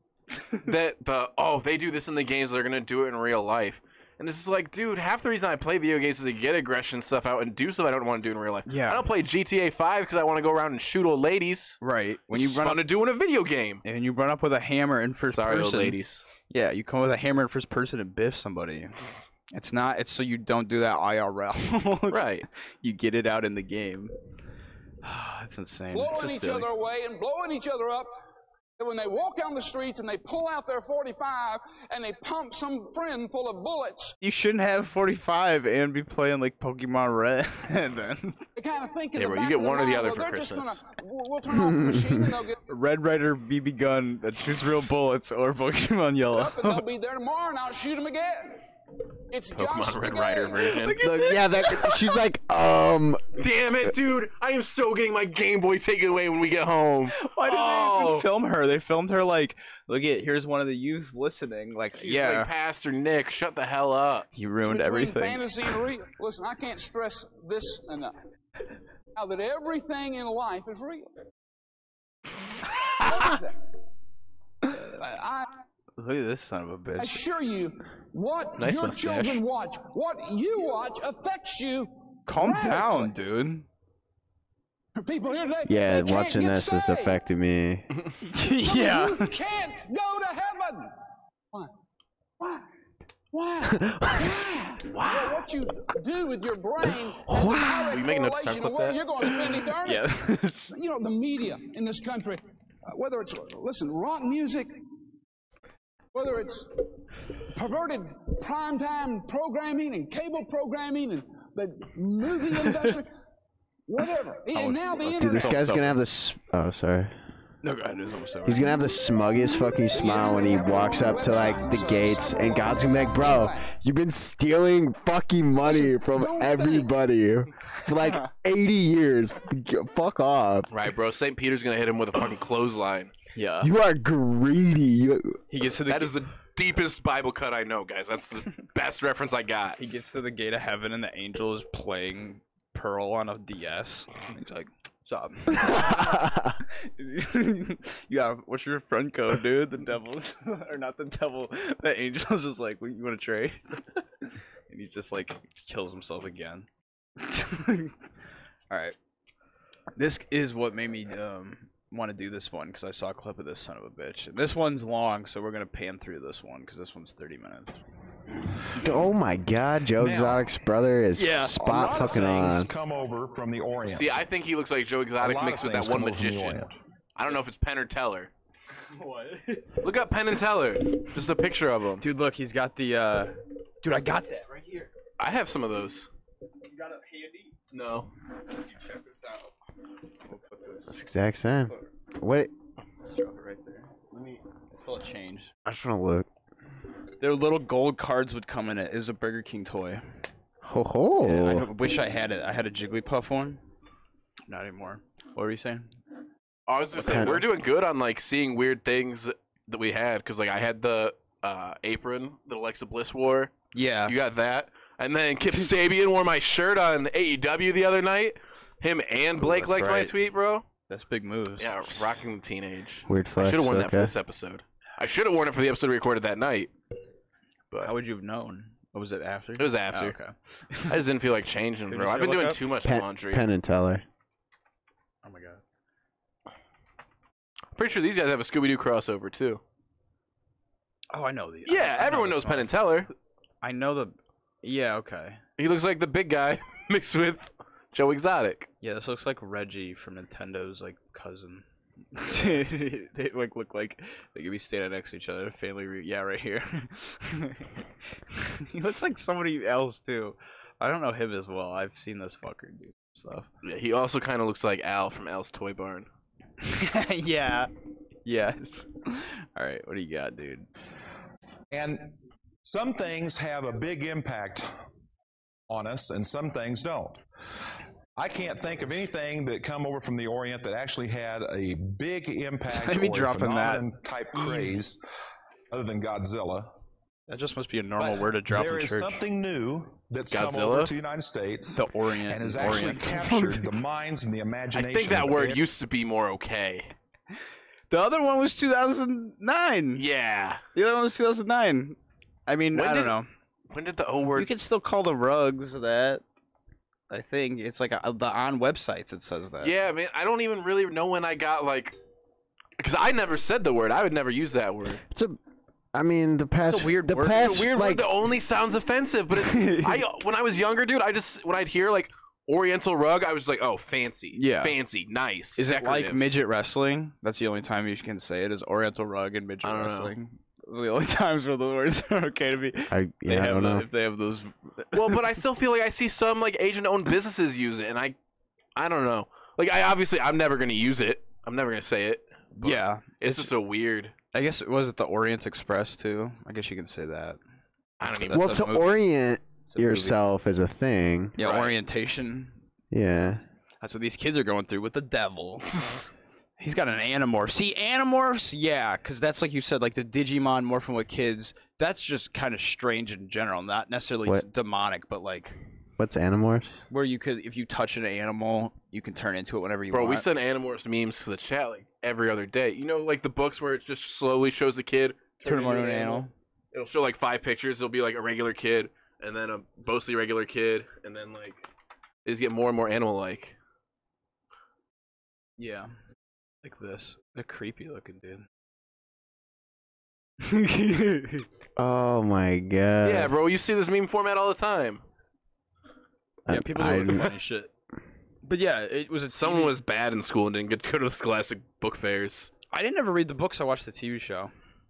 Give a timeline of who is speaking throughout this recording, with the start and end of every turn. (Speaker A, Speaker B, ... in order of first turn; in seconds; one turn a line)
Speaker A: 0.6-11.8
Speaker B: 8.7-9.1
Speaker B: 11.8-12.9
Speaker A: 12.3-13.8
Speaker B: 13.8-16.0
Speaker A: 15.3-16.2
Speaker B: 16.5-24.1
Speaker A: 22.1-22.4
Speaker B: 25.0-26.6
Speaker C: 25.9-28.1
Speaker A: 26.1-26.6
Speaker C: 28.8-34.1
Speaker B: 34.2-38.4
Speaker C: 38.5-42.6
Speaker A: 39.1-40.8
Speaker D: 41.7-42.1
Speaker B: 42.7-46.8
Speaker C: 46.3-48.6
Speaker C: 49.3-50.8
Speaker A: 49.5-51.0
Speaker B: 50.7-52.1
Speaker D: 51.0-53.4
Speaker A: 53.4-58.3
Speaker B: 57.1-62.5
Speaker A: 62.0-64.3
Speaker B: 64.3-65.4
Speaker C: 64.6-68.2
Speaker C: 69.1-71.1
Speaker C: 72.9-73.6
Speaker C: 74.7-75.5
Speaker B: 76.0-77.2
Speaker C: 77.0-83.1
Speaker A: 78.6-79.4
Speaker B: 82.3-83.7
Speaker C: 85.0-87.2
Speaker D: 85.7-87.9
Speaker B: 88.2-89.3
Speaker C: 88.6-90.9
Speaker C: 92.4-92.7
Speaker C: 93.3-100.1
Speaker D: 93.7-94.3
Speaker A: 94.9-95.5
Speaker A: 97.4-99.1
Speaker B: 99.8-100.7
Speaker C: 100.7-104.7
Speaker C: 106.1-106.8
Speaker C: 107.5-113.1
Speaker C: 113.9-115.7
Speaker B: 114.5-116.0
Speaker D: 115.1-117.1
Speaker B: 117.6-118.7
Speaker D: 118.4-130.7
Speaker C: 119.9-123.7
Speaker C: 125.6-126.9
Speaker A: 130.7-133.1
Speaker B: 133.3-133.7
Speaker D: 133.6-135.4
Speaker B: 135.5-136.2
Speaker A: 135.9-139.8
Speaker B: 139.8-154.0
Speaker D: 145.7-146.5
Speaker B: 154.7-157.9
Speaker B: 158.7-158.9
Speaker B: 159.9-167.8
Speaker D: 168.8-172.7
Speaker E: 170.0-170.5
Speaker B: 171.2-172.1
Speaker E: 171.6-174.2
Speaker A: 173.8-176.6
Speaker E: 175.2-176.7
Speaker A: 177.2-178.3
Speaker B: 178.9-179.8
Speaker A: 179.8-182.0
Speaker B: 182.0-184.9
Speaker A: 185.2-186.1
Speaker B: 186.7-187.5
Speaker A: 187.7-188.1
Speaker B: 188.8-189.5
Speaker B: 190.3-191.0
Speaker D: 190.9-192.5
Speaker B: 193.0-194.2
Speaker B: 194.7-195.5
Speaker D: 195.6-196.3
Speaker B: 197.2-200.0
Speaker D: 200.6-201.7
Speaker B: 201.2-203.6
Speaker B: 204.5-205.9
Speaker A: 206.7-213.5
Speaker D: 206.9-207.4
Speaker B: 213.7-214.1
Speaker A: 214.0-220.7
Speaker B: 219.4-220.2
Speaker B: 220.9-222.1
Speaker A: 221.6-226.7
Speaker D: 223.1-224.1
Speaker B: 227.8-230.9
Speaker A: 229.6-230.2
Speaker A: 230.9-233.4
Speaker B: 231.9-232.6
Speaker D: 232.8-234.0
Speaker B: 235.2-235.6
Speaker A: 237.8-239.6
Speaker B: 241.1-242.7
Speaker A: 241.7-243.1
Speaker B: 243.6-245.4
Speaker A: 245.6-248.7
Speaker B: 248.8-257.7
Speaker B: 258.3-263.5
Speaker A: 263.6-266.1
Speaker B: 266.6-267.7
Speaker B: 268.2-270.7
Speaker E: 271.7-274.8
Speaker E: 275.7-277.2
Speaker E: 278.2-285.0
Speaker B: 282.7-284.7
Speaker E: 285.7-286.7
Speaker B: 287.3-289.2
Speaker E: 288.0-295.7
Speaker A: 290.3-290.9
Speaker B: 291.7-293.7
Speaker A: 294.7-296.9
Speaker B: 297.9-300.0
Speaker A: 300.0-300.6
Speaker B: 300.7-303.3
Speaker A: 302.7-303.1
Speaker A: 303.7-304.5
Speaker B: 304.3-306.2
Speaker B: 307.1-309.7
Speaker A: 309.6-311.9
Speaker A: 312.8-315.0
Speaker D: 315.1-315.4
Speaker D: 315.9-318.1
Speaker B: 316.7-317.6
Speaker A: 317.2-326.2
Speaker B: 319.4-320.0
Speaker B: 324.3-324.8
Speaker B: 325.6-335.2
Speaker A: 329.6-330.1
Speaker D: 332.9-333.9
Speaker A: 334.9-338.1
Speaker A: 338.8-344.1
Speaker B: 342.6-343.5
Speaker B: 344.3-347.4
Speaker A: 348.0-348.7
Speaker B: 348.1-349.0
Speaker D: 348.3-351.4
Speaker B: 349.7-350.2
Speaker B: 351.4-352.6
Speaker A: 351.4-351.7
Speaker D: 352.9-353.4
Speaker B: 353.8-356.1
Speaker B: 356.6-365.6
Speaker D: 366.0-366.8
Speaker B: 366.9-370.2
Speaker A: 369.9-381.6
Speaker B: 375.4-376.3
Speaker A: 382.2-383.6
Speaker B: 385.6-385.9
Speaker B: 386.6-388.4
Speaker B: 390.4-391.4
Speaker D: 391.8-393.3
Speaker A: 393.0-395.0
Speaker D: 396.5-397.3
Speaker B: 396.5-397.7
Speaker B: 398.4-399.7
Speaker A: 399.3-402.5
Speaker B: 402.7-404.5